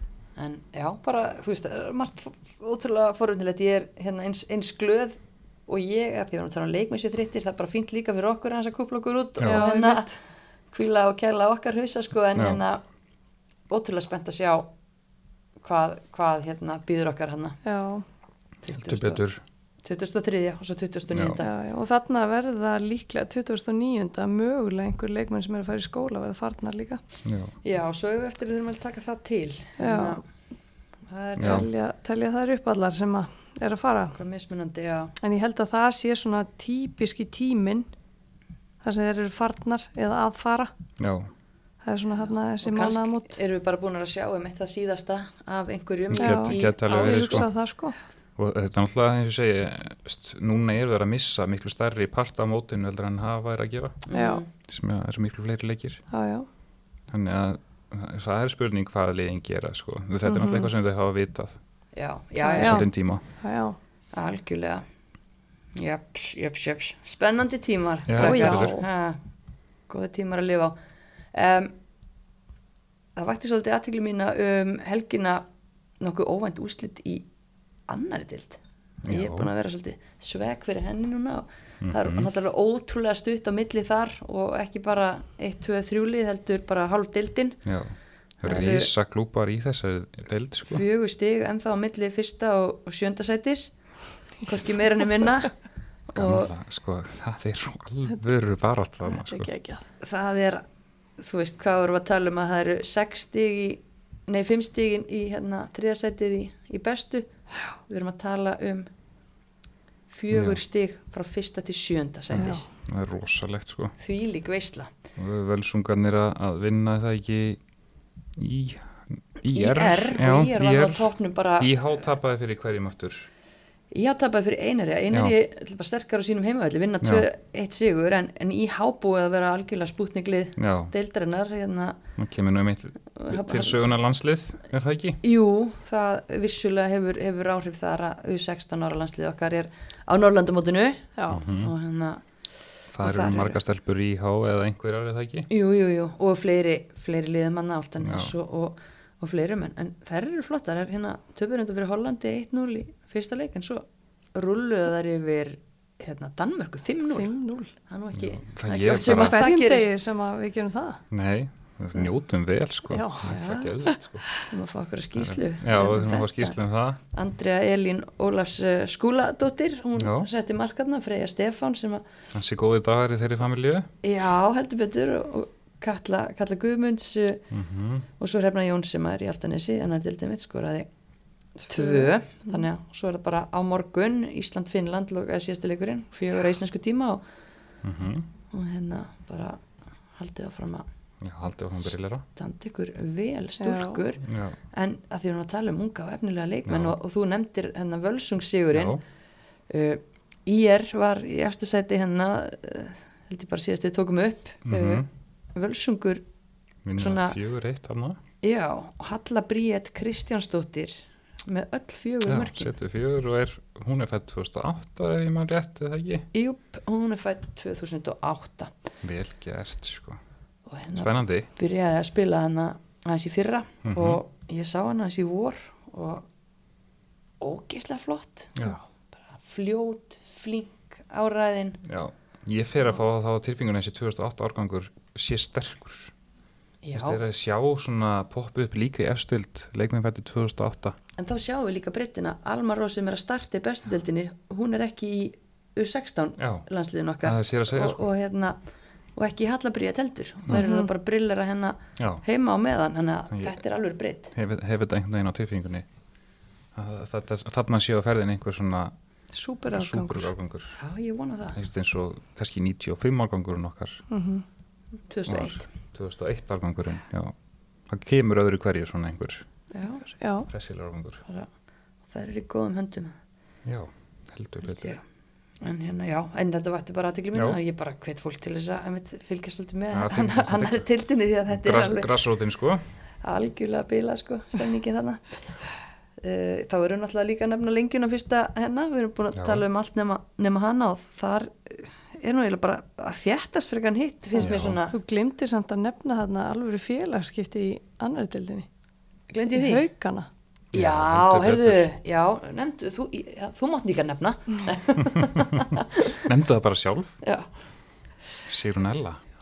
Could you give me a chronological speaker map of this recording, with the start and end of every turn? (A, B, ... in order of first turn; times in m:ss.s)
0:00.4-0:10.1 A
0:09.4-0:10.2 B
0:10.7-0:12.8 A
0:12.3-0:12.6 C
0:13.7-0:14.7 A
0:15.6-0:17.6 A
0:17.6-0:18.0 B
0:18.6-0:19.2 A
0:18.7-0:19.4 C
0:19.8-0:21.5 A
0:21.1-0:21.4 C
0:21.4-0:27.0 B
0:27.2-0:27.5 C
0:27.6-0:30.2 A
0:29.8-0:30.2 B
0:31.1-0:31.7 A
0:31.4-0:31.6 C
0:31.4-0:34.2 B
0:34.1-0:35.1 A
0:35.2-0:37.9 B
0:38.8-0:40.7 B
0:41.0-0:41.3 C
0:41.8-0:43.4 B
0:42.6-0:47.4 A
0:46.1-0:47.5 C
0:46.2-0:48.0 B
0:48.4-0:54.0 C
0:54.0-0:54.5 A
0:54.1-0:54.4 B
0:54.6-0:56.0 C
0:56.1-0:56.5 B
0:57.1-1:01.5 C
1:00.2-1:00.7 B
1:01.9-1:02.8 A
1:02.4-1:03.8 B
1:02.6-1:03.2 C
1:04.1-1:04.8 A
1:05.8-1:09.2 A
1:08.1-1:08.8 C
1:08.2-1:08.8 B
1:09.9-1:10.8 A
1:11.3-1:11.7 A
1:13.2-1:15.4 A
1:16.0-1:17.3 A
1:17.9-1:27.6 A
1:19.0-1:19.5 C
1:21.8-1:22.3 C
1:27.6-1:30.8 C
1:28.4-1:28.9 A
1:30.7-1:33.8 A
1:34.4-1:35.5 A
1:35.0-1:35.2 B
1:36.1-1:36.5 A
1:36.1-1:39.5 C
1:39.1-1:39.8 B
1:40.0-1:40.6 A
1:41.2-1:47.3 A
1:47.9-1:48.9 A
1:50.1-1:52.7 A
1:50.3-1:50.6 C
1:52.3-1:53.9 C
1:52.4-1:52.6 B
1:54.0-1:54.9 A
1:55.2-1:57.6 C
1:58.4-2:01.1 C
1:59.5-2:01.7 A
2:01.6-2:03.3 C
2:03.9-2:12.0 A
2:07.0-2:07.3 C
2:10.6-2:10.9 C
2:12.2-2:15.2 C
2:13.1-2:13.8 A
2:15.2-2:22.2 A
2:21.2-2:21.4 B
2:21.3-2:21.7 C
2:22.9-2:25.5 C
2:23.0-2:23.6 A
2:25.5-2:37.3 A
2:28.0-2:28.3 C
2:37.1-2:37.7 B
2:37.9-2:39.9 A
2:38.1-2:39.4 C
2:38.9-2:41.0 B
2:41.1-2:44.3 C
2:42.9-2:43.3 B
2:43.2-2:43.7 A
2:43.8-2:44.4 B
2:44.4-2:46.6 A
2:45.2-2:47.0 C
2:47.1-2:52.0 A
2:50.0-2:50.3 C
2:52.3-2:53.9 C
2:54.0-2:57.5 A
2:57.5-2:58.0 C
2:58.2-3:00.9 A
3:01.6-3:07.2 A
3:01.7-3:02.6 B
3:07.8-3:08.3 C
3:08.5-3:09.6 A
3:10.2-3:10.8 A
3:11.2-3:12.2 C
3:12.4-3:19.0 A
3:13.6-3:14.0 B
3:14.2-3:14.6 C
3:16.6-3:17.0 C
3:18.7-3:19.0 C
3:19.7-3:26.2 A
3:24.6-3:25.1 C
3:26.8-3:28.2 C
3:27.0-3:27.4 A
3:28.4-3:32.7 A
3:32.2-3:36.3 C
3:36.3-3:38.7 A
3:39.0-3:40.2 C
3:40.7-3:46.3 A
3:41.0-3:41.5 C
3:43.8-3:44.2 C
3:47.4-3:51.8 A
3:51.8-3:56.1 C
3:56.8-3:57.2 A
3:56.9-4:01.0 C
4:01.2-4:08.6 A
4:06.4-4:06.6 C
4:07.2-4:08.0 C
4:09.2-4:14.3 A
4:10.5-4:10.9 B
4:12.0-4:12.2 C
4:13.3-4:13.6 C
4:14.3-4:15.8 C
4:16.7-4:18.9 C
4:19.3-4:20.3 B
4:19.7-4:20.8 C
4:20.8-4:21.6 A
4:21.6-4:24.0 C
4:24.1-4:24.4 B
4:25.1-4:25.7 A
4:25.2-4:27.3 C
4:27.9-4:29.4 C
4:29.7-4:30.0 A
4:30.2-4:30.5 B
4:30.5-4:31.2 C
4:32.1-4:33.1 A
4:33.6-4:35.0 C
4:34.6-4:35.0 A
4:35.6-4:42.1 A
4:37.3-4:37.6 C
4:39.9-4:40.8 C
4:41.5-4:42.8 C
4:43.2-4:45.2 A
4:46.2-4:55.0 A
4:49.3-4:49.6 C
4:54.4-4:54.8 C
4:54.9-4:58.7 B
4:59.3-4:59.8 A
4:59.5-5:00.3 B
5:00.7-5:01.9 C
5:00.7-5:06.2 A
5:05.1-5:07.2 C
5:08.5-5:09.2 C